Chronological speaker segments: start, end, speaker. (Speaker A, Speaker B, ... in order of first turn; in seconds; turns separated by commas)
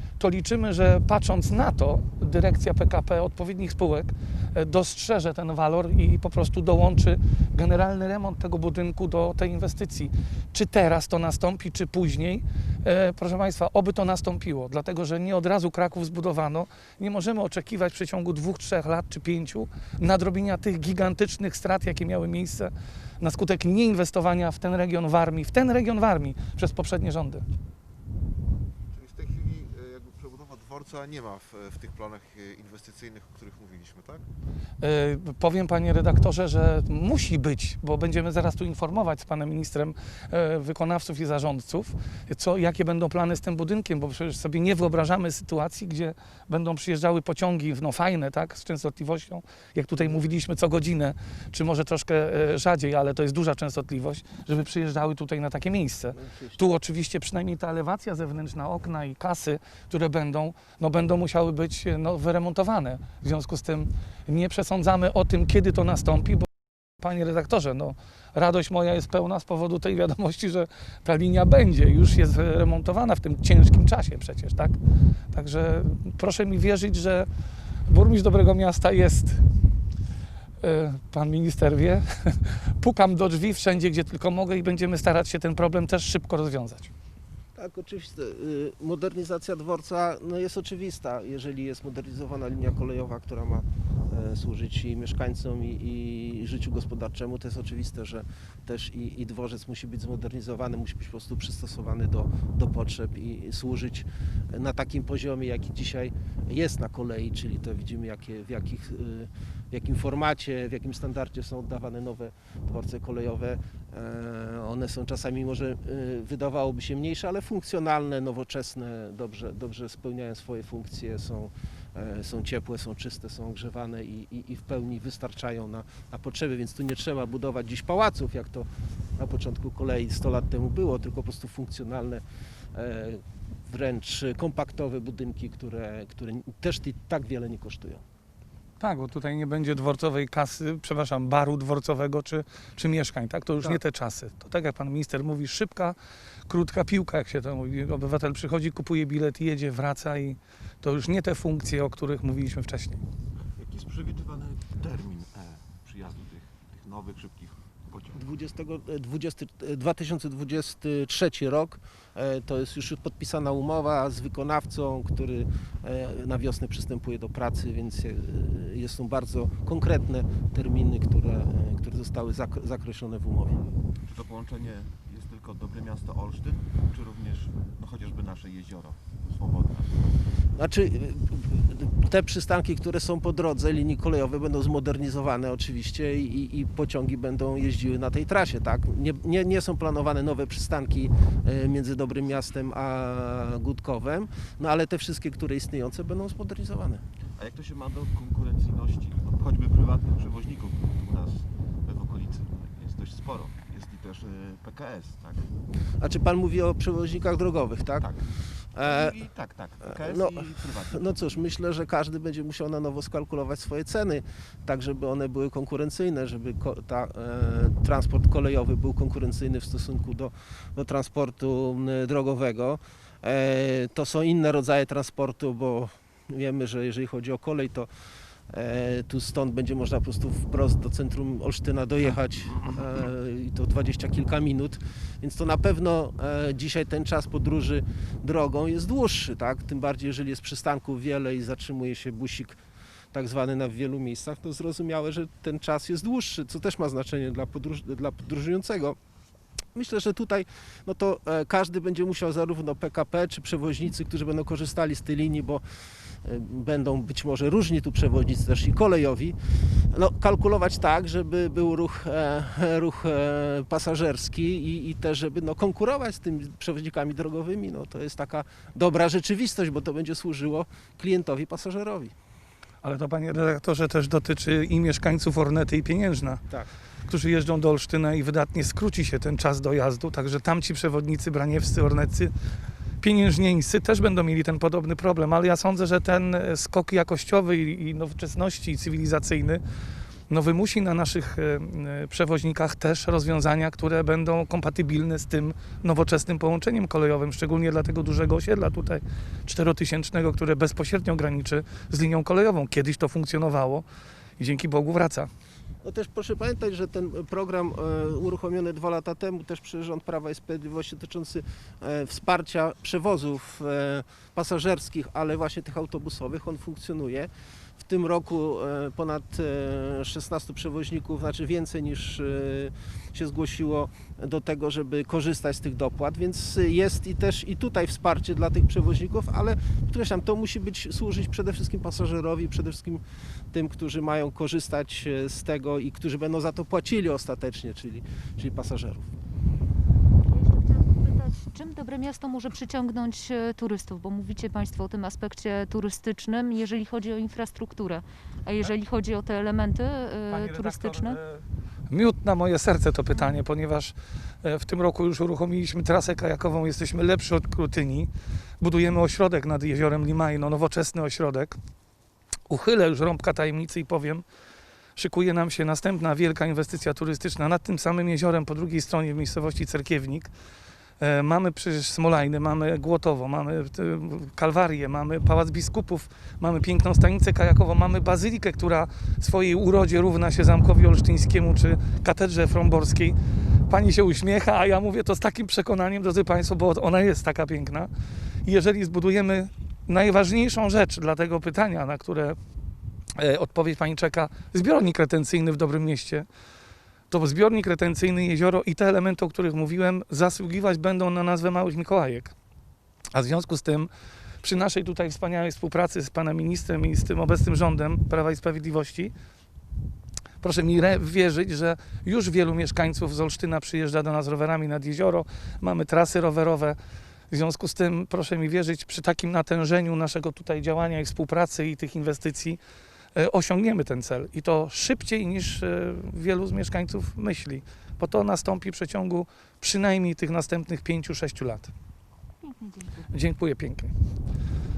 Speaker A: 0.2-27.4, Speaker B: 28.9-34.3, Speaker A: 34.8-66.5, Speaker C: 56.1-56.6, Speaker A: 67.0-74.8, Speaker A: 75.3-77.3, Speaker A: 77.9-79.4, Speaker A: 80.6-86.9, Speaker C: 87.5-128.7, Speaker C: 129.2-132.2, Speaker C: 132.7-138.0, Speaker A: 138.8-146.0, Speaker A: 146.5-153.0, Speaker D: 153.6-158.2, Speaker C: 158.1-173.6, Speaker D: 174.1-180.0, Speaker C: 180.6-197.0, Speaker D: 197.4-205.5, Speaker C: 206.0-208.1, Speaker D: 207.9-211.5, Speaker C: 208.7-209.2, Speaker C: 210.0-227.9, Speaker C: 228.5-242.6, Speaker C: 243.1-249.0, Speaker C: 249.8-255.6, Speaker C: 256.2-259.4, Speaker C: 259.9-272.1, Speaker A: 272.8-276.4, Speaker A: 277.1-282.3, Speaker A: 283.0-289.6, Speaker A: 290.3-303.9, Speaker A: 304.4-305.3, Speaker C: 305.8-339.1, Speaker E: 340.3-351.2, Speaker A: 350.3-361.6, Speaker A: 362.5-364.2, Speaker A: 365.0-370.3, Speaker A: 371.0-383.2, Speaker A: 383.7-387.9, Speaker A: 388.4-392.4, Speaker A: 393.2-396.3, Speaker A: 397.1-402.3, Speaker A: 403.1-403.9, Speaker A: 404.4-409.1, Speaker A: 410.4-416.8, Speaker A: 417.3-422.6, Speaker A: 423.2-431.7, Speaker E: 432.4-433.1, Speaker A: 433.1-433.9